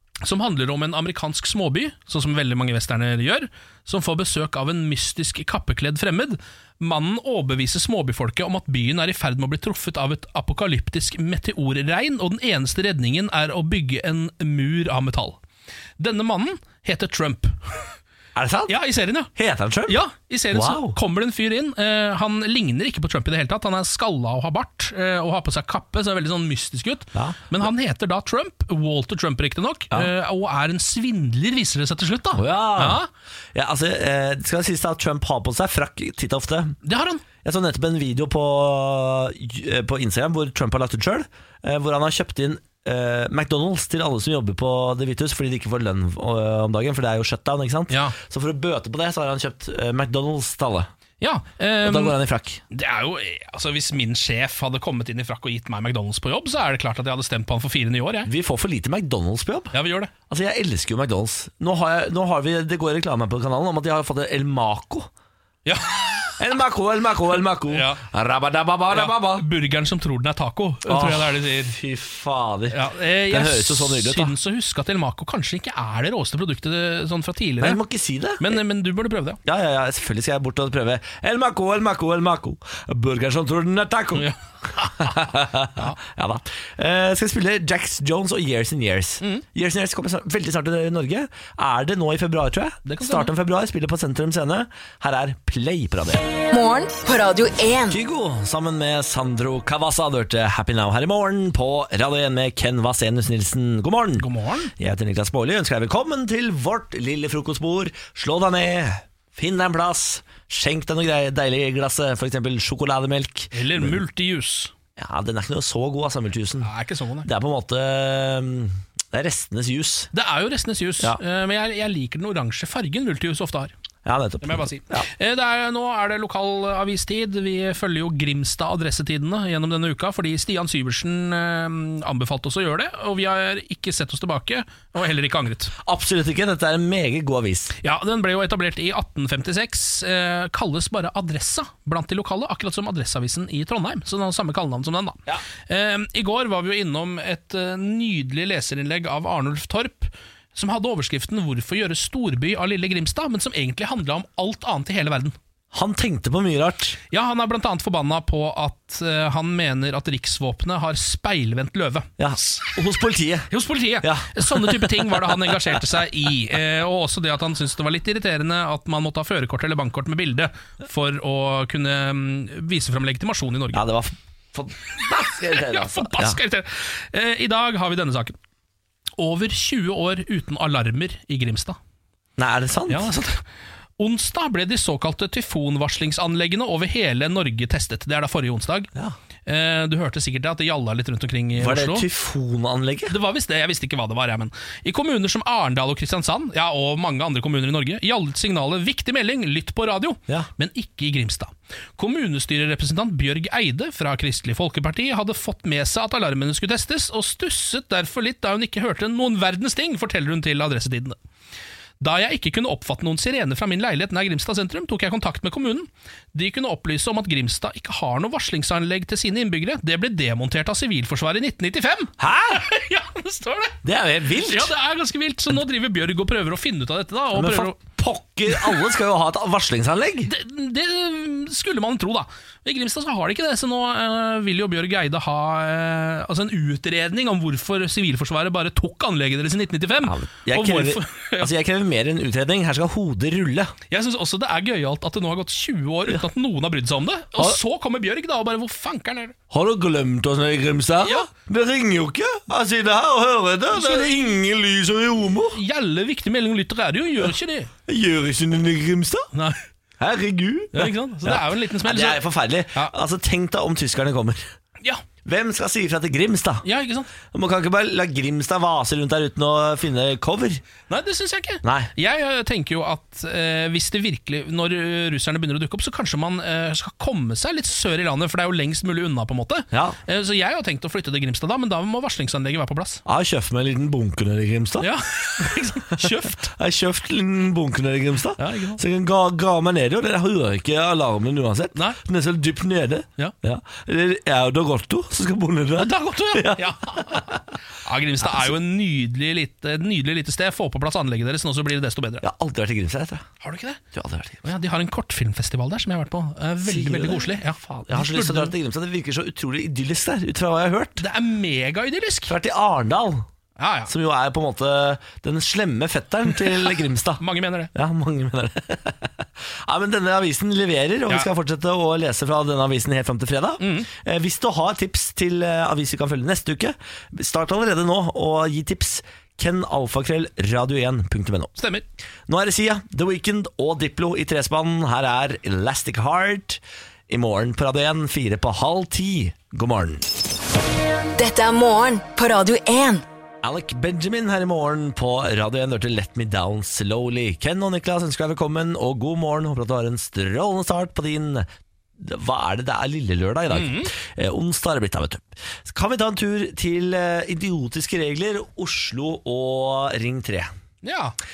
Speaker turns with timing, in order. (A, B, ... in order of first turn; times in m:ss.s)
0:00.2-0:15.4 A
0:16.0-0:17.9 A
0:18.4-0:18.8 B
0:18.7-0:19.3 A
0:19.4-0:20.0 B
0:19.9-0:33.1 A
0:20.5-0:21.0 B
0:32.4-0:33.0 B
0:33.5-0:36.8 B
0:36.8-0:37.2 A
0:37.4-0:50.9 B
0:47.9-0:48.2 A
0:51.2-0:52.2 A
0:51.8-0:52.6 B
0:52.7-0:58.3 A
0:58.3-0:59.8 B
0:59.7-1:00.1 A
1:00.3-1:05.1 B
1:05.7-1:06.4 A
1:06.4-1:09.4 B
1:07.7-1:08.0 A
1:08.9-1:11.8 A
1:10.9-1:14.3 B
1:12.7-1:17.8 A
1:17.6-1:18.6 B
1:18.4-1:19.4 A
1:19.4-1:24.3 B
1:24.2-1:25.2 A
1:24.8-1:36.3 B
1:32.8-1:33.3 A
1:36.5-1:38.0 C
1:37.9-1:54.0 B
1:44.2-1:44.7 A
1:53.5-1:54.7 A
1:55.0-1:56.7 B
1:56.6-1:57.3 A
1:57.2-2:00.1 B
2:00.1-2:03.7 A
2:04.0-2:05.1 B
2:04.4-2:15.7 A
2:15.8-2:17.8 B
2:17.8-2:35.4 A
2:35.7-2:37.0 B
2:37.1-2:42.7 A
2:42.2-2:43.5 B
2:43.5-2:53.8 A
2:44.0-2:45.8 B
2:53.7-2:56.4 B
2:55.1-2:58.4 A
2:59.2-3:01.8 A
3:02.4-3:03.1 B
3:02.9-3:03.4 A
3:04.0-3:08.9 A
3:09.5-3:12.1 A
3:11.6-3:13.2 B
3:13.1-3:31.2 A
3:32.0-3:43.8 A
3:42.2-3:42.6 B
3:43.8-3:44.7 B
3:44.4-3:47.8 A
3:47.3-3:50.3 B
3:48.5-3:48.8 A
3:50.3-4:01.5 A
4:00.0-4:03.7 B
4:03.9-4:09.4 A
4:09.5-4:15.6 B
4:11.0-4:11.3 A
4:13.7-4:14.3 A
4:15.6-4:17.7 A
4:17.9-4:19.3 B
4:19.3-4:19.6 A
4:20.0-4:24.4 B
4:20.7-4:22.9 A
4:25.2-4:26.6 B
4:26.6-4:27.1 A
4:27.3-4:30.6 B
4:30.9-4:43.0 A
4:31.6-4:31.9 B
4:39.7-4:40.0 B
4:43.1-4:44.9 B
4:44.8-4:46.5 A
4:46.0-4:57.4 B
4:48.4-4:48.8 A
4:51.8-4:52.0 A
4:55.8-5:02.2 A
4:58.2-4:58.5 B
5:02.2-5:03.3 B
5:03.4-5:03.8 A
5:03.9-5:04.4 B
5:04.4-5:08.5 A
5:06.6-5:11.0 B
5:11.0-5:12.3 A
5:12.3-5:13.3 B
5:13.6-5:13.9 A
5:13.9-5:17.2 B
5:17.2-5:17.7 A
5:17.7-5:31.5 B
5:23.6-5:23.9 A
5:31.6-5:31.8 A
5:32.3-5:40.1 B
5:41.2-5:43.0 C
5:43.4-5:51.5 B
5:52.0-6:00.5 B
5:53.5-5:53.9 A
6:00.8-6:01.2 A